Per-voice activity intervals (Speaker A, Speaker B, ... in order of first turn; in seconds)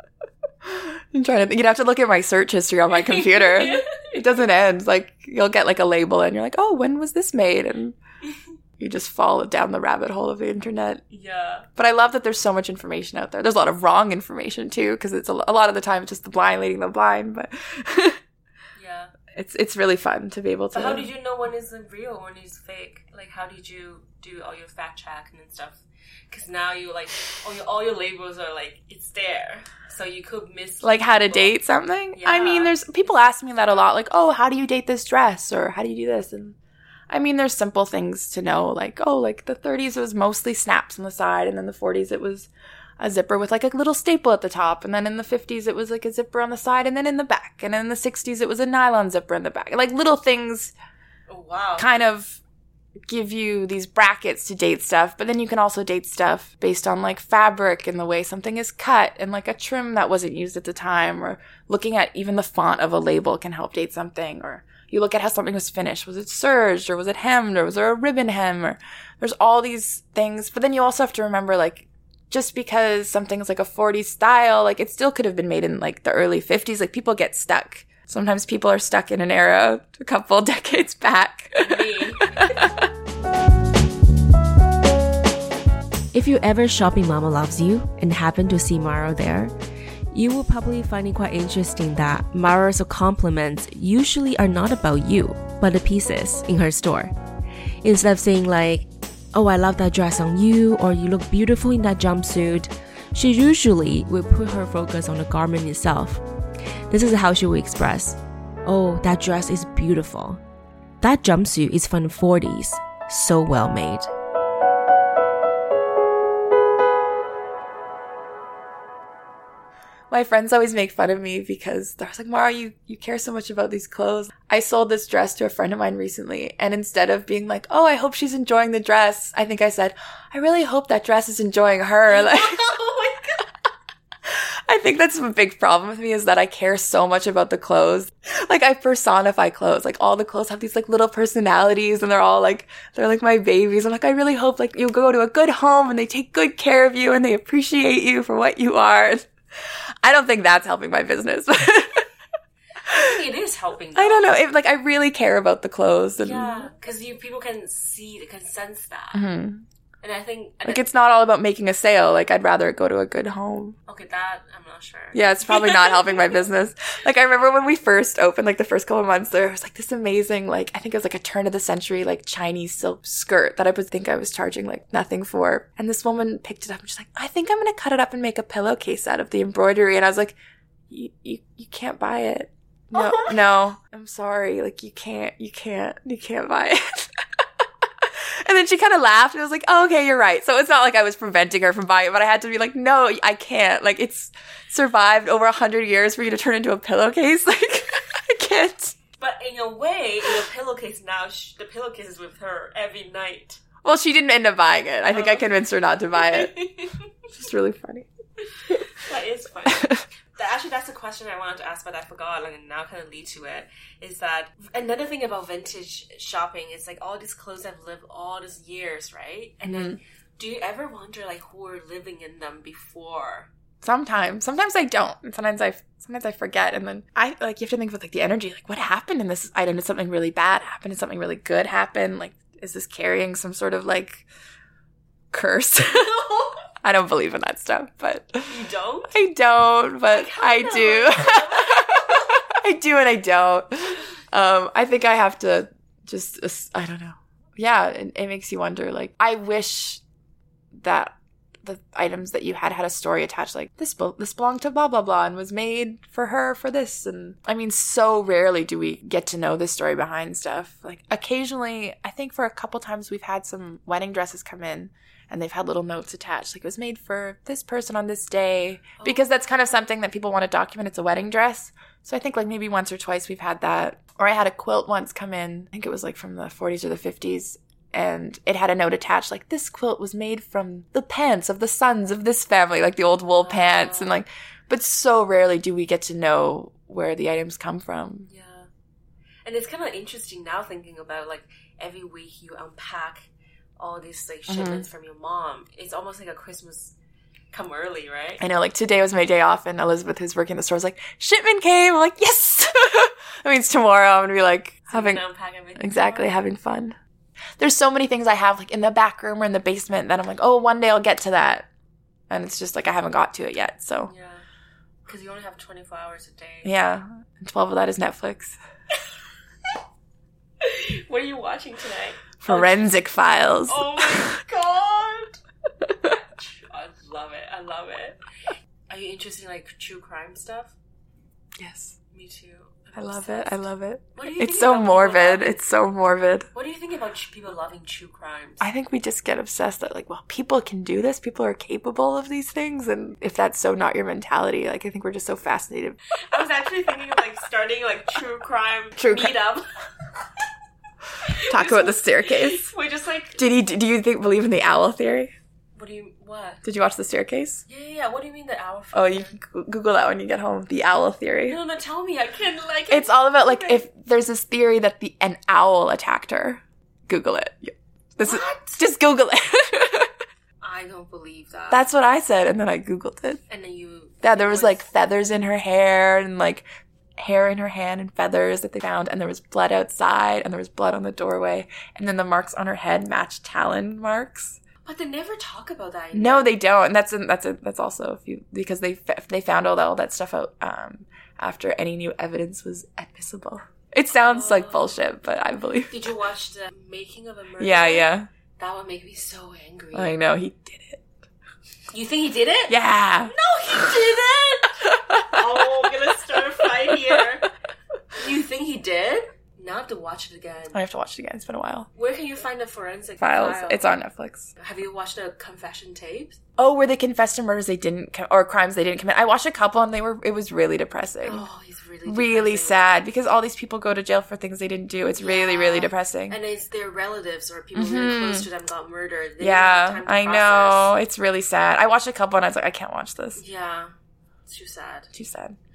Speaker A: 0.6-8.0, 8.8-11.0, 11.8-18.2, 19.3-21.1, 30.8-36.5, 37.1-50.7, 51.8-52.4, 53.1-82.9, 120.1-132.6, 134.2-152.1, 152.8-153.2, 153.9-156.7, 159.1-159.6, 160.6-163.8, 165.1-180.3, 180.9-199.0, 203.8-206.6, 207.4-208.1, 209.7-210.0, 219.6-220.0, 223.8-234.2, 235.3-236.1, 236.8-250.0, 250.8-288.3, 294.5-294.9, 298.4-305.2, 305.8-307.0, 307.6-311.7, 312.3-314.1, 316.6-318.6, 322.4-324.4, 331.6-331.9, 332.9-336.5, 338.6-346.0, 349.0-349.4, 351.5-352.7, 353.4-355.3, 356.6-357.6, 358.9-361.6, 362.9-370.1, 371.7-373.4, 374.2-376.6, 377.2-384.6, 386.1-395.9, 397.6-398.3, 399.9-401.1, 402.7-404.0, 404.8-405.9, 406.8-407.2, 410.7-411.9, 413.2-414.5, 416.6-421.4, 422.0-426.4, 427.7-428.5, 429.4-433.4, 435.1-435.6
Speaker B: 3.1-4.1, 11.1-11.7, 18.8-19.1, 20.7-31.6, 32.1-32.7, 51.3-51.9, 81.6-82.7, 132.1-133.5, 152.9-154.3, 156.2-159.3, 160.0-160.8, 163.9-166.4, 182.9-183.4, 199.2-203.6, 205.1-205.5, 206.1-207.1, 208.6-223.5, 236.0-236.6, 238.5-239.2, 240.1-242.4, 269.0-269.3, 283.4-284.2, 288.3-288.7, 289.4-296.9, 297.5-298.4, 304.9-306.4, 314.1-314.4, 315.1-316.7, 320.6-322.9, 323.6-325.4, 326.0-328.2, 328.9-330.7, 332.1-335.6, 336.5-338.6, 346.1-349.6, 351.2-353.4, 355.8-356.6, 357.7-359.4, 361.5-363.9, 368.2-368.8, 370.6-371.9, 373.5-374.8, 384.8-386.6, 394.2-395.0, 395.9-400.1, 401.9-407.5, 408.1-410.8, 411.9-414.0, 414.6-416.4, 421.2-422.9, 425.1-430.9, 433.4-433.9, 434.4-435.1
Speaker C: 86.1-89.5, 90.1-97.1, 97.8-106.2, 106.9-110.4, 111.0-114.1